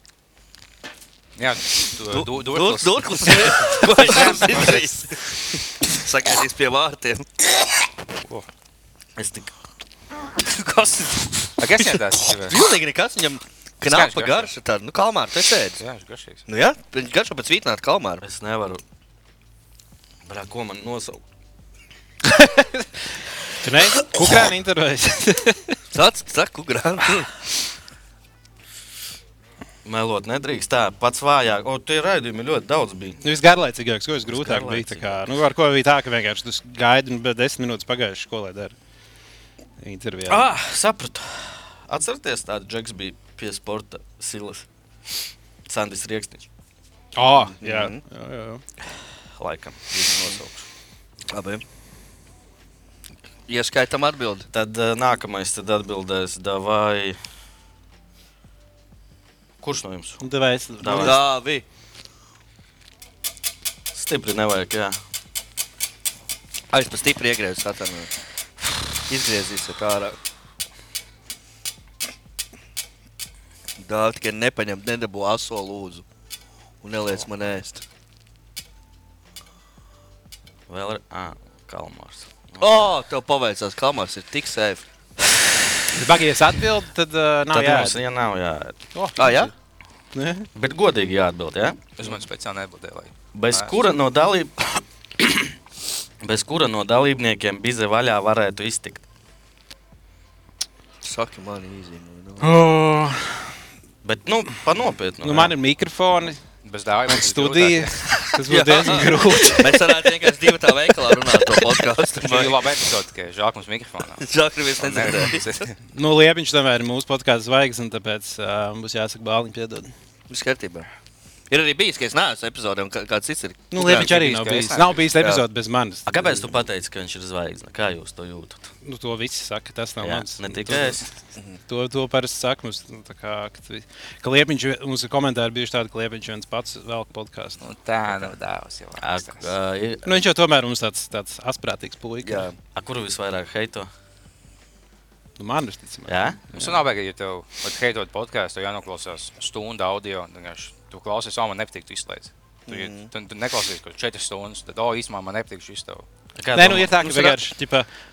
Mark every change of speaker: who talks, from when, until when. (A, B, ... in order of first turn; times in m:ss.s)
0:01.4-0:05.2 A
0:02.1-0:05.2 B
0:05.8-0:07.3 B
0:09.2-0:09.5 C
0:10.4-0:15.8 B
0:11.6-0:12.6 A
0:13.8-0:14.5 A
0:15.8-0:16.5 A
0:16.5-0:18.2 B
0:18.2-0:18.8 C
0:20.3-0:21.2 C
0:22.3-0:22.9 D
0:23.6-0:25.8 D
0:25.9-0:27.4 B
0:29.8-0:33.2 C
0:33.2-0:38.7 D
0:34.3-0:35.2 C
0:39.8-0:40.5 D
0:40.3-0:44.7 C
0:45.7-0:46.5 C
0:47.2-0:48.6 D
0:47.6-0:48.0 B
0:49.4-0:50.7 C
0:51.3-0:51.6 B
0:53.5-0:54.5 B
0:54.5-0:57.2 C
0:59.6-1:00.2 C
1:00.2-1:01.2 D
1:00.8-1:01.2 C
1:00.9-1:01.6 B
1:03.9-1:05.0 C
1:06.7-1:08.1 B
1:09.1-1:10.2 B
1:13.8-1:16.0 B
1:16.8-1:17.8 B
1:20.7-1:22.9 C
1:22.6-1:24.8 B
1:25.9-1:28.0 D
1:27.5-1:28.8 C
1:28.9-1:29.5 D
1:29.2-1:29.5 B
1:30.2-1:30.5 D
1:30.6-1:31.8 C
1:32.0-1:33.8 A
1:33.3-1:35.5 C
1:36.2-1:39.0 C
1:41.0-1:42.5 B
1:42.4-1:43.5 D
1:44.0-1:45.5 C
1:45.2-1:46.4 D
1:46.6-1:48.0 A
1:47.1-1:50.0 D
1:48.5-1:52.6 B
1:52.2-1:55.8 A
1:54.2-1:55.6 B
1:55.9-1:59.9 D
2:00.3-2:00.9 B
2:01.5-2:04.1 B
2:03.7-2:06.5 D
2:03.8-2:05.1 A
2:05.2-2:05.4 B
2:06.1-2:08.6 C
2:08.8-2:11.1 D
2:10.0-2:11.1 C
2:11.7-2:17.6 D
2:17.6-2:19.5 A
2:19.0-2:20.2 C
2:20.0-2:22.5 D
2:22.2-2:22.6 B
2:22.8-2:23.9 C
2:25.4-2:26.6 D
2:26.1-2:26.4 C
2:26.5-2:36.1 A
2:32.7-2:33.1 B
2:36.4-2:37.0 C
2:36.5-2:37.9 D
2:37.0-2:37.4 B